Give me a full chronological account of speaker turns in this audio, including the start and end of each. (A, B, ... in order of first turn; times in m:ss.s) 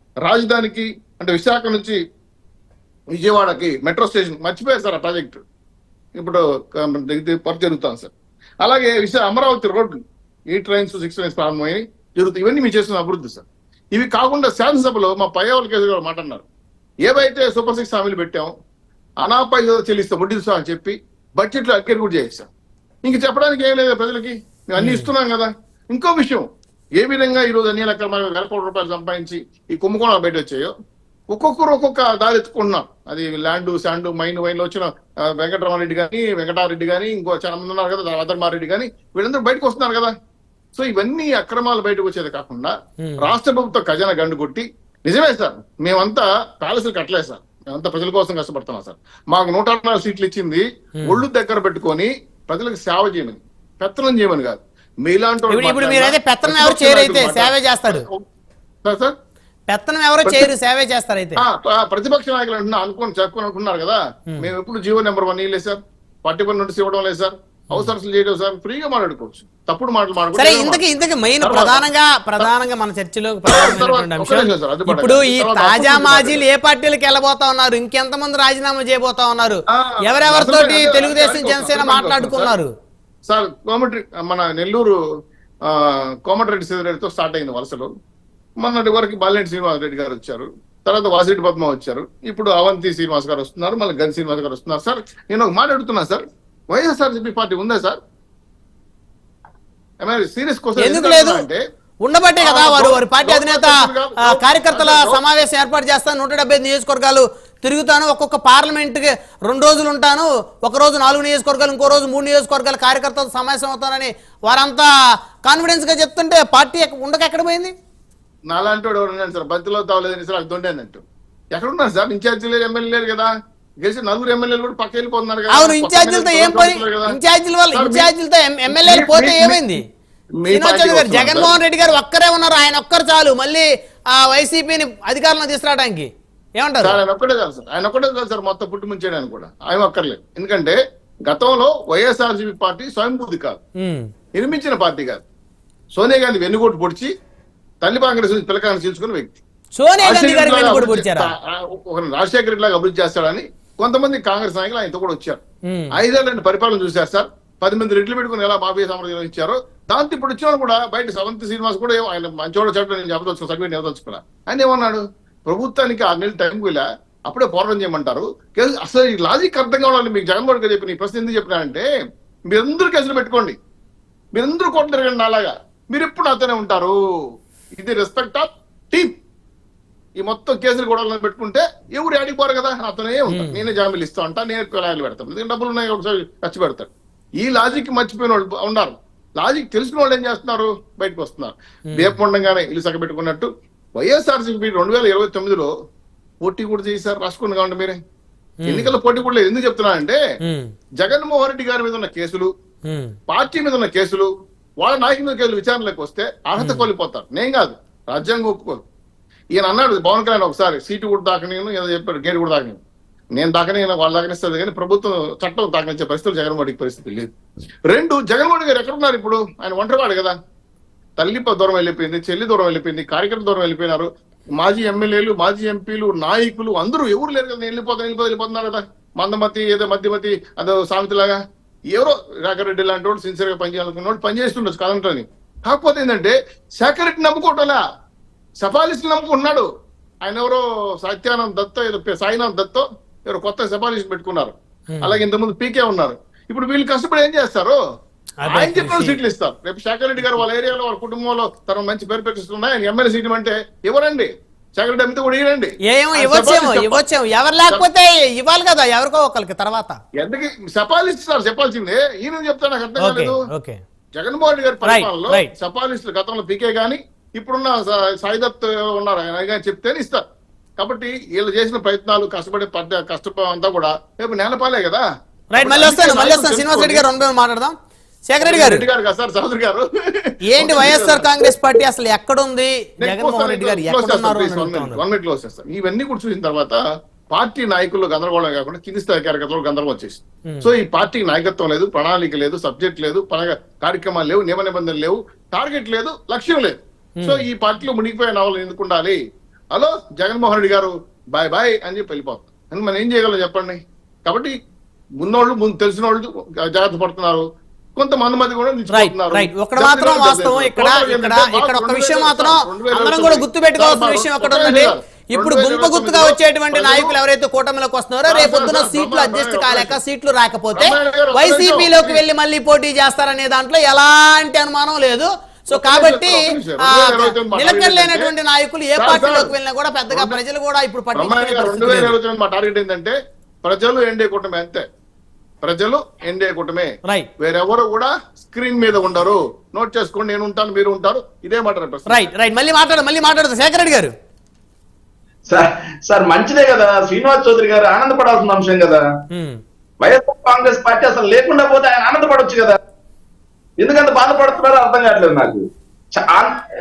0:00.2-0:02.0 A
0:03.1-0:05.4 A
0:06.2-0:08.1 A
0:08.6-0:10.0 A
0:10.5-0:16.4 A
0:17.0-0:18.5 A
0:19.2-0:22.5 A
0:23.0-0:26.4 A
0:24.8-0:25.1 B
0:27.0-0:30.7 A
0:31.3-0:40.1 A
0:40.7-0:58.2 A
0:43.0-0:43.3 B
0:55.5-0:58.0 B
0:58.8-0:59.1 A
0:59.7-1:01.4 B
1:00.2-1:00.5 A
1:01.4-1:10.8 A
1:10.4-1:22.7 B
1:11.4-1:11.8 A
1:13.5-1:16.4 A
1:19.7-1:22.5 A
1:23.3-1:24.9 A
1:25.6-1:27.9 A
1:28.6-1:38.0 A
1:40.0-1:41.6 A
1:40.8-1:41.5 B
1:42.0-1:54.9 B
1:42.4-1:45.2 A
1:55.4-1:57.7 B
1:58.5-2:01.0 A
2:01.5-2:03.3 A
2:03.8-2:07.2 A
2:05.5-2:09.8 B
2:07.7-2:08.1 A
2:08.7-2:09.7 A
2:10.4-2:11.6 A
2:10.5-2:17.0 B
2:16.8-2:23.6 A
2:23.8-2:24.1 B
2:24.3-2:25.2 A
2:26.0-2:27.1 A
2:27.8-2:29.4 A
2:29.7-2:31.3 B
2:30.0-2:35.4 A
2:35.7-2:35.9 B
2:35.9-2:51.9 A
2:52.5-2:53.6 A
2:54.3-2:57.0 A
2:57.8-2:59.1 A
3:00.2-3:06.9 A
3:03.3-3:03.6 B
3:07.4-3:15.7 A
3:11.9-3:12.2 B
3:16.4-3:18.0 A
3:18.6-3:18.9 B
3:18.7-3:20.2 A
3:20.4-3:20.7 B
3:21.0-3:22.5 A
3:22.9-3:23.1 B
3:23.3-3:24.3 A
3:24.8-3:28.8 A
3:26.6-3:26.9 B
3:29.5-3:32.8 A
3:33.4-3:37.3 A
3:37.9-3:40.4 A
3:41.2-3:51.4 A
3:51.9-3:57.8 A
3:58.6-3:59.6 A
4:00.2-4:07.8 A
4:04.9-4:05.2 B
4:08.4-4:09.2 B
4:08.5-4:17.0 A
4:15.9-4:20.0 B
4:20.2-4:23.4 A
4:23.0-4:23.8 B
4:24.1-4:30.2 A
4:24.8-4:25.5 B
4:30.8-4:37.0 A
4:35.5-4:37.7 B
4:38.3-4:38.8 B
4:38.4-4:41.5 A
4:40.4-4:45.0 B
4:43.0-4:46.8 A
4:47.3-4:59.2 A
4:57.2-4:57.4 B
4:59.7-5:04.5 A
5:05.2-5:07.4 A
5:08.0-5:17.2 A
5:08.9-5:32.2 B
5:18.2-5:20.0 A
5:20.7-5:22.2 A
5:25.7-5:28.3 A
5:29.0-5:29.5 A
5:30.1-5:30.4 A
5:31.1-5:34.8 A
5:35.6-5:42.3 A
5:42.1-5:44.1 B
5:45.5-5:49.1 C
5:49.3-5:49.6 B
5:50.0-5:52.8 C
5:53.8-5:56.6 C